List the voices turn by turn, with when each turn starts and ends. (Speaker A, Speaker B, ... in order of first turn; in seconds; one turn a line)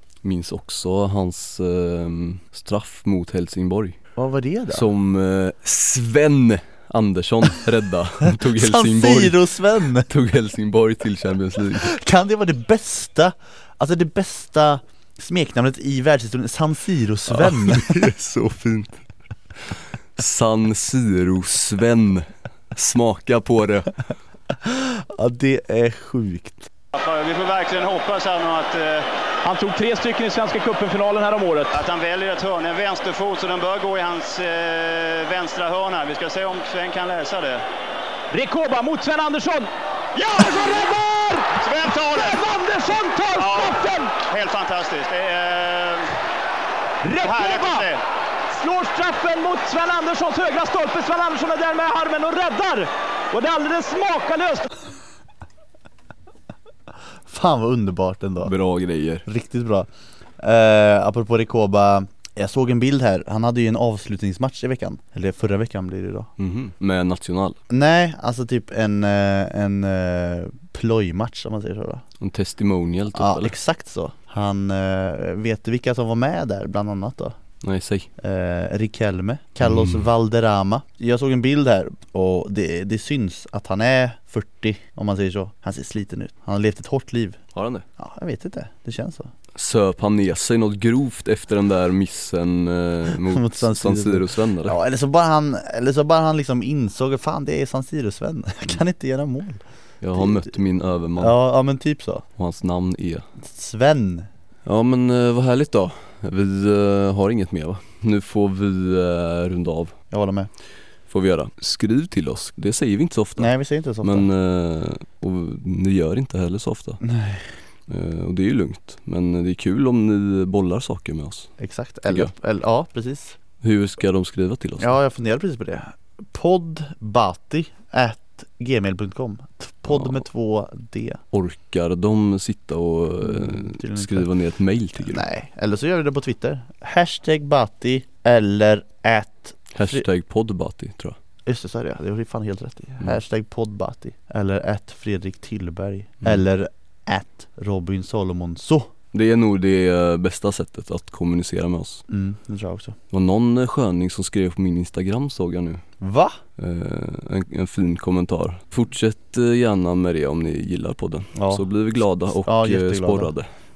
Speaker A: 0.2-4.0
Speaker B: 4.2-4.8
Speaker A: 4.7-11.9
Speaker B: 8.4-10.1
Speaker B: 11.7-18.1
Speaker A: 17.3-19.0
Speaker A: 20.1-23.9
Speaker B: 24.6-26.7
Speaker C: 26.9-29.1
Speaker D: 29.4-31.7
Speaker C: 31.7-37.6
Speaker D: 38.3-44.1
Speaker C: 40.1-40.9
Speaker C: 41.6-42.4
Speaker C: 43.4-46.1
Speaker D: 47.0-47.9
Speaker C: 47.2-48.0
Speaker D: 48.5-54.7
Speaker B: 57.2-58.5
Speaker A: 58.4-59.2
Speaker B: 59.2-59.9
Speaker B: 60.4-66.3
Speaker A: 66.4-67.6
Speaker B: 67.7-72.0
Speaker A: 72.2-73.5
Speaker B: 73.1-77.3
Speaker A: 77.6-78.1
Speaker B: 78.2-87.4
Speaker A: 79.6-80.0
Speaker A: 87.5-87.8
Speaker B: 88.0-89.3
Speaker A: 89.5-94.8
Speaker B: 93.2-99.6
Speaker A: 100.0-101.3
Speaker B: 100.2-100.5
Speaker B: 101.2-102.2
Speaker A: 102.4-103.2
Speaker B: 103.4-104.3
Speaker A: 104.6-109.9
Speaker B: 110.1-110.5
Speaker A: 111.1-113.5
Speaker B: 113.4-114.3
Speaker A: 114.0-117.0
Speaker B: 117.0-117.4
Speaker A: 117.9-121.5
Speaker B: 121.6-123.3
Speaker A: 123.6-124.9
Speaker B: 124.8-131.2
Speaker A: 129.9-130.2
Speaker A: 131.3-135.2
Speaker B: 133.2-134.3
Speaker B: 135.0-140.0
Speaker A: 139.7-141.2
Speaker B: 141.4-148.9
Speaker A: 149.1-152.0
Speaker B: 152.1-152.9
Speaker A: 153.1-155.8
Speaker B: 156.0-156.4
Speaker A: 156.6-163.5
Speaker B: 161.3-161.6
Speaker B: 162.4-163.3